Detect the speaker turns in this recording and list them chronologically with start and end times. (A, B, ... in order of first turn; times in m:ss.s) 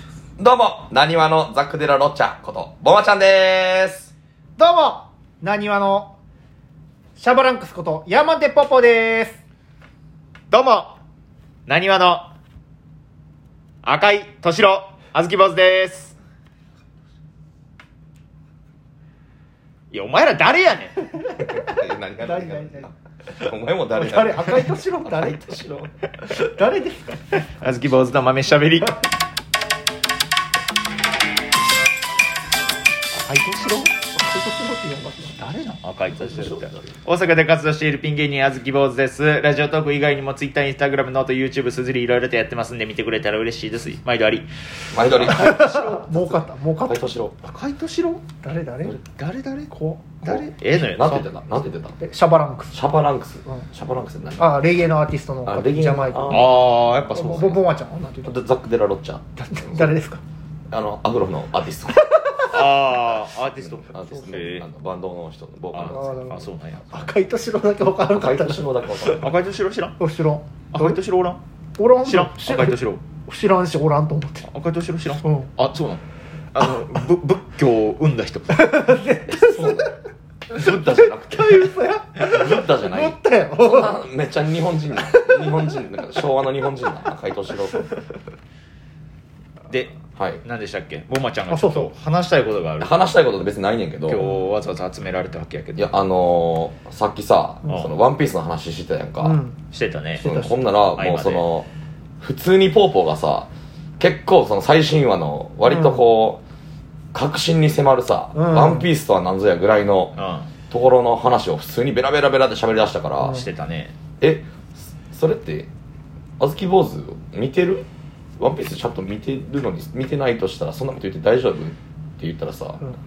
0:00.4-0:04.1 A
0:04.6-0:06.1 B
0:07.2-0:09.4 B
0:10.5-0:11.0 C
0:11.7-0:12.3 C
0:13.8-0:16.2 C
0:19.9-0:21.3 C
0:21.3-0:25.9 A
0:22.2-0:22.9 B
0:24.0-0:25.6 B
0:26.3-0:27.6 B
0:27.5-0:29.0 C
0:33.1-0:33.9 C
0:34.2-0:35.4 B
0:35.4-0:44.5 C
0:36.1-0:36.9 A
0:44.9-0:45.9 A
0:45.1-0:46.0 C
0:45.3-0:47.0 B
0:46.8-0:47.3 A
0:47.4-0:48.2 C
0:48.4-0:49.0 B
0:49.1-0:51.3 C
0:49.7-0:50.4 B
0:50.2-0:52.0 A
0:52.0-0:52.7 B
0:52.7-0:54.6 A
0:54.4-0:56.4 B
0:55.4-0:56.6 A
0:56.3-0:57.6 C
0:57.1-0:58.4 B
0:58.2-1:00.0 A
0:59.4-1:00.2 B
1:00.7-1:02.1 A
1:02.0-1:02.5 B
1:02.4-1:04.7 C
1:03.6-1:06.1 A
1:05.7-1:07.1 C
1:05.9-1:08.7 B
1:08.0-1:09.3 A
1:09.1-1:10.0 C
1:10.0-1:11.0 B
1:10.7-1:11.4 C
1:11.8-1:14.5 B
1:12.0-1:13.0 C
1:14.4-1:19.0 C
1:15.2-1:15.5 B
1:18.5-1:20.0 B
1:19.3-1:19.9 A
1:20.5-1:27.9 A
1:20.5-1:24.0 B
1:25.0-1:25.7 B
1:29.7-1:33.0 C
1:30.2-1:30.4 A
1:31.5-1:31.9 B
1:32.8-1:34.3 A
1:34.1-1:35.9 C
1:35.8-1:39.4 A
1:39.2-1:39.6 B
1:39.7-1:40.3 C
1:40.2-1:41.7 A
1:40.2-1:40.6 B
1:41.0-1:41.4 C
1:42.2-1:46.4 A
1:45.7-1:46.0 B
1:47.1-1:50.1 A
1:48.3-1:48.9 B
1:50.1-1:50.5 C
1:50.7-1:53.4 A
1:53.2-1:53.9 C
1:54.2-1:54.5 A
1:55.1-1:55.7 A
1:56.4-1:57.8 A
1:58.4-2:02.8 A